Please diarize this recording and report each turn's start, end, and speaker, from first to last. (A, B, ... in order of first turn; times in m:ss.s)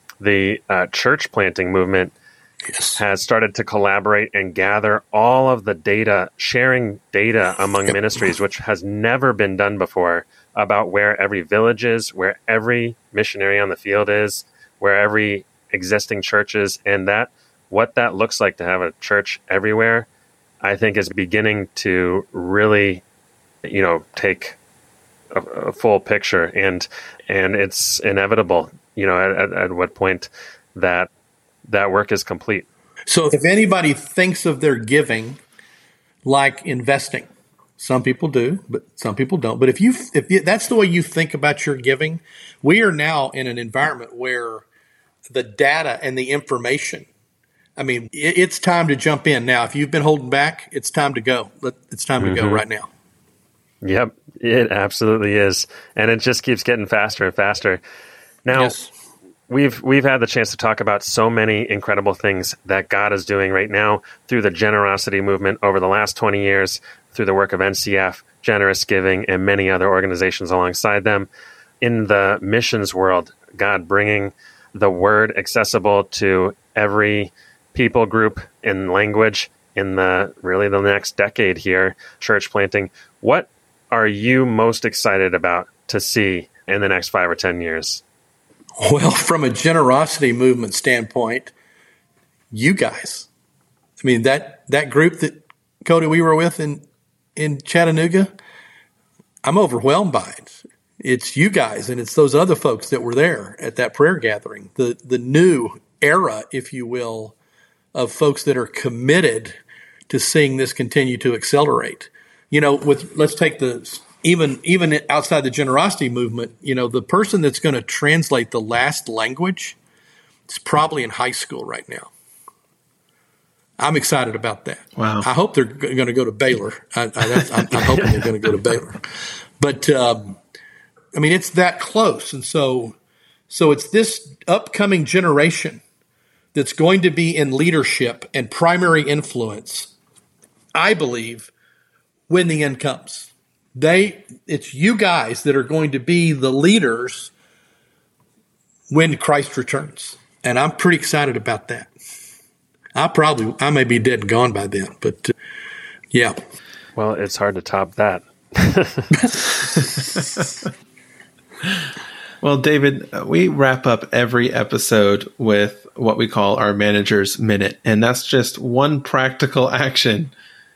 0:00.2-0:02.1 A
0:02.7-0:03.0 B
0:03.0-0:20.1 A
0:20.6-0:23.0 A
0:23.6-0:24.6 A
0:25.3-0:31.1 A
0:31.7-0:32.6 A
0:33.1-0:35.4 B
0:36.2-0:44.6 B
0:45.3-0:47.1 B
0:47.8-0:52.9 B
0:52.2-0:52.6 A
0:53.8-0:57.8 A
0:58.4-0:58.8 A
0:58.5-0:58.9 B
0:59.5-1:11.3 A
1:11.8-1:28.0 A
1:28.8-1:31.5 B
1:32.5-1:33.3 B
1:34.0-1:36.8 B
1:37.4-1:38.3 B
1:39.4-1:47.3 B
1:47.9-1:49.6 B
1:50.1-1:59.8 B
2:00.5-2:02.1 B
2:03.8-2:09.0 B
2:05.0-2:05.2 C
2:09.6-2:10.4 B
2:11.1-2:13.0 B
2:13.5-2:15.8 B
2:16.5-2:19.9 B
2:20.7-2:21.5 B
2:22.3-2:27.3 B
2:28.9-2:31.9 B
2:33.0-2:35.3 B
2:37.0-2:39.1 A
2:42.4-2:50.3 C